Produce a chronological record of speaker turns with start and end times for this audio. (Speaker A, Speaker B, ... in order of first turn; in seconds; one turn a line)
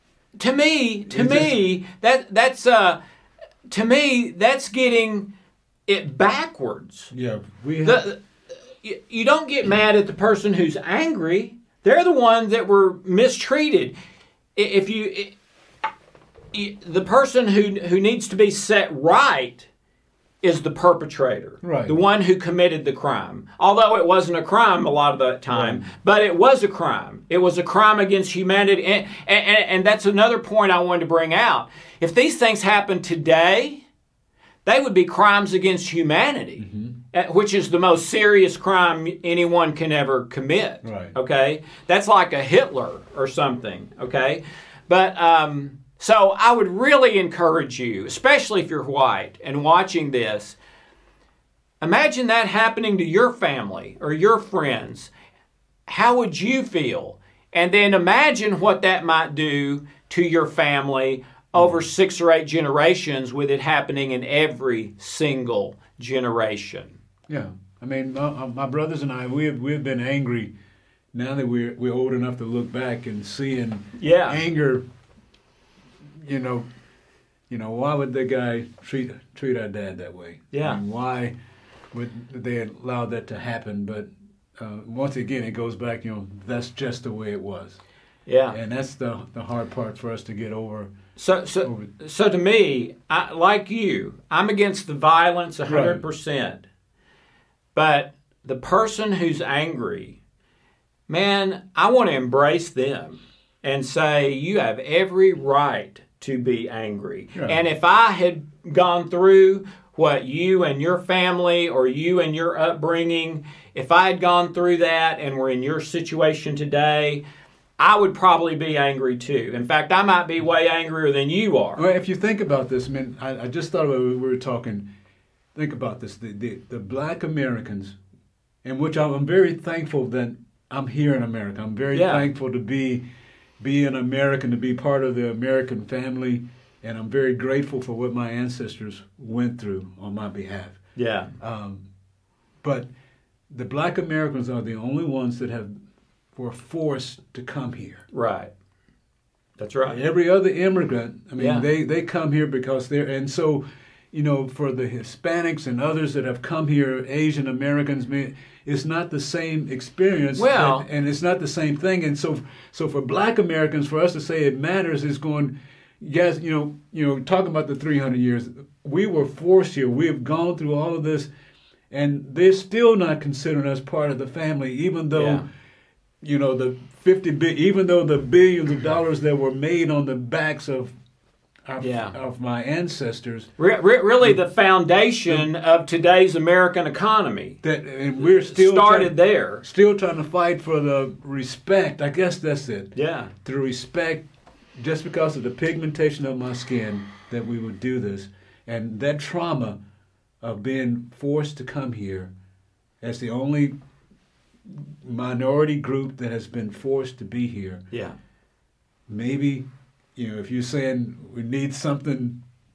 Speaker A: 0.4-3.0
Speaker B: 1.1-1.6
Speaker A: 3.7-5.3
Speaker A: 5.9-7.1
Speaker B: 7.1-8.0
Speaker A: 7.8-8.2
Speaker A: 8.8-13.9
Speaker A: 14.6-15.3
Speaker A: 16.5-19.7
Speaker A: 20.4-33.8
Speaker B: 21.6-22.0
Speaker B: 25.5-25.8
Speaker A: 34.6-50.6
Speaker B: 36.6-36.9
Speaker B: 40.8-41.1
Speaker A: 51.8-55.1
Speaker A: 55.9-67.0
Speaker B: 61.5-61.8
Speaker B: 67.3-70.5
Speaker B: 71.1-74.8
Speaker A: 74.0-74.4
Speaker B: 76.2-76.7
Speaker B: 77.5-81.3
Speaker A: 80.5-80.8
Speaker B: 81.9-87.8
Speaker A: 88.3-88.6
Speaker B: 88.5-90.9
Speaker A: 91.2-96.6
Speaker B: 91.6-91.9
Speaker B: 95.7-96.0
Speaker A: 97.7-100.2
Speaker A: 101.1-117.2
Speaker A: 117.8-121.8
Speaker B: 121.8-124.8
Speaker B: 125.5-128.0
Speaker B: 128.6-133.0
Speaker A: 131.9-132.2
Speaker B: 133.6-140.8
Speaker A: 140.9-141.3
Speaker B: 141.4-141.8
Speaker B: 142.6-142.9
Speaker B: 143.5-145.7
Speaker B: 146.3-148.0
Speaker A: 148.1-148.5
Speaker A: 149.6-150.0
Speaker B: 149.9-171.3
Speaker A: 151.4-151.7
Speaker A: 160.3-160.8
Speaker B: 171.9-175.4
Speaker A: 175.1-175.4
Speaker B: 176.2-180.9
Speaker B: 181.7-183.5
Speaker A: 181.8-182.1
Speaker A: 183.6-187.6
Speaker B: 187.6-192.9
Speaker A: 188.2-189.6
Speaker A: 192.9-193.3
Speaker B: 193.4-194.2
Speaker B: 194.8-199.8
Speaker B: 200.4-202.3
Speaker B: 203.0-203.7
Speaker B: 204.7-207.8
Speaker A: 207.9-208.2
Speaker B: 209.1-212.4